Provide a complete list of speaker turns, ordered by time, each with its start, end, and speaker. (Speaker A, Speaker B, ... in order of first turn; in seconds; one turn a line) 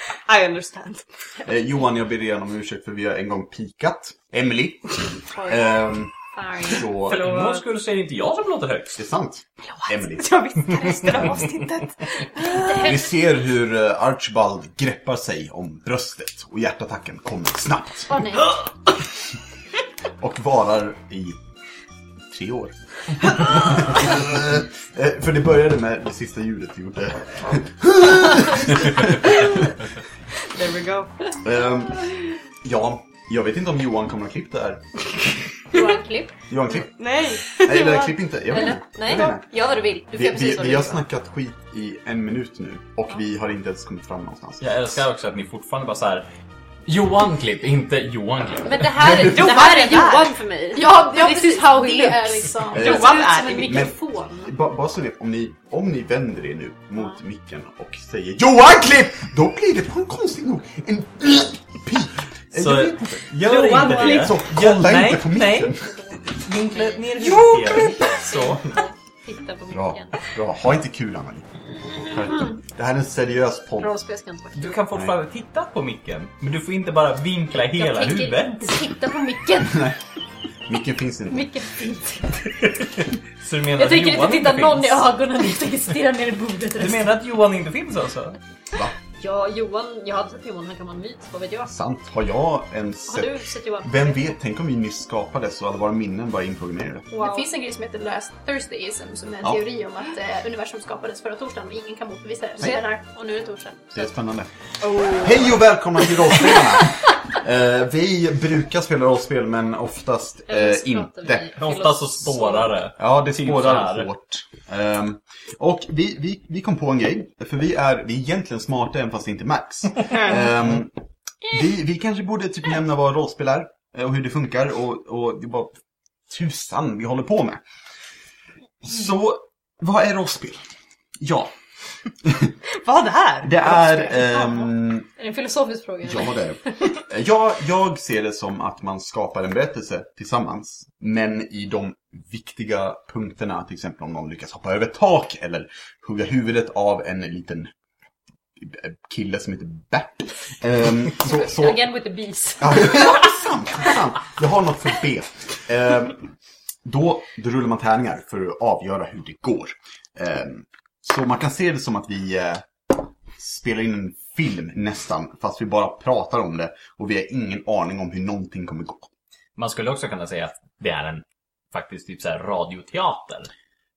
Speaker A: 0.3-1.0
Speaker B: 1.4-7.2
Speaker C: 5.3-5.8
Speaker C: 6.3-7.2
Speaker D: 7.0-9.0
Speaker A: 7.1-7.6
Speaker B: 8.9-10.4
Speaker A: 9.8-12.8
Speaker D: 10.6-11.0
Speaker C: 12.5-13.1
Speaker B: 12.8-18.2
Speaker C: 18.1-18.6
Speaker B: 20.2-21.4
Speaker B: 22.3-29.7
Speaker A: 30.5-31.1
Speaker B: 31.4-35.3
Speaker C: 35.7-36.3
Speaker B: 36.5-36.9
Speaker A: 37.0-38.2
Speaker B: 37.5-39.5
Speaker C: 38.5-41.0
Speaker B: 40.1-45.0
Speaker D: 44.6-46.3
Speaker D: 46.9-49.4
Speaker C: 48.6-54.5
Speaker A: 49.1-50.3
Speaker E: 50.7-53.1
Speaker A: 52.7-53.9
Speaker B: 52.7-65.9
Speaker D: 62.5-65.8
Speaker A: 63.4-64.3
Speaker C: 65.8-67.4
Speaker D: 66.3-68.7
Speaker C: 68.5-70.2
Speaker B: 69.7-73.9
Speaker C: 73.8-74.8
Speaker D: 74.5-78.8
Speaker C: 77.7-79.6
Speaker E: 79.0-79.8
Speaker B: 79.6-80.0
Speaker B: 80.7-81.6
Speaker C: 81.3-82.3
Speaker D: 82.6-85.1
Speaker C: 83.8-87.2
Speaker D: 86.8-88.4
Speaker C: 89.2-91.7
Speaker B: 91.7-97.1
Speaker C: 93.1-94.3
Speaker E: 97.1-103.0
Speaker C: 97.2-97.5
Speaker C: 102.6-104.0
Speaker B: 103.9-104.5
Speaker A: 104.8-105.4
Speaker B: 105.1-111.5
Speaker C: 110.5-112.8
Speaker D: 111.5-114.1
Speaker B: 113.0-120.9
Speaker B: 121.5-125.7
Speaker B: 126.3-127.6
Speaker B: 128.8-130.7
Speaker B: 131.2-131.5
Speaker B: 132.2-132.5
Speaker A: 132.7-133.9
Speaker B: 133.4-135.1
Speaker C: 134.0-136.4
Speaker B: 136.0-147.7
Speaker B: 148.6-151.8
Speaker C: 151.3-153.3
Speaker B: 152.6-156.3
Speaker B: 156.8-169.1
Speaker D: 169.6-173.5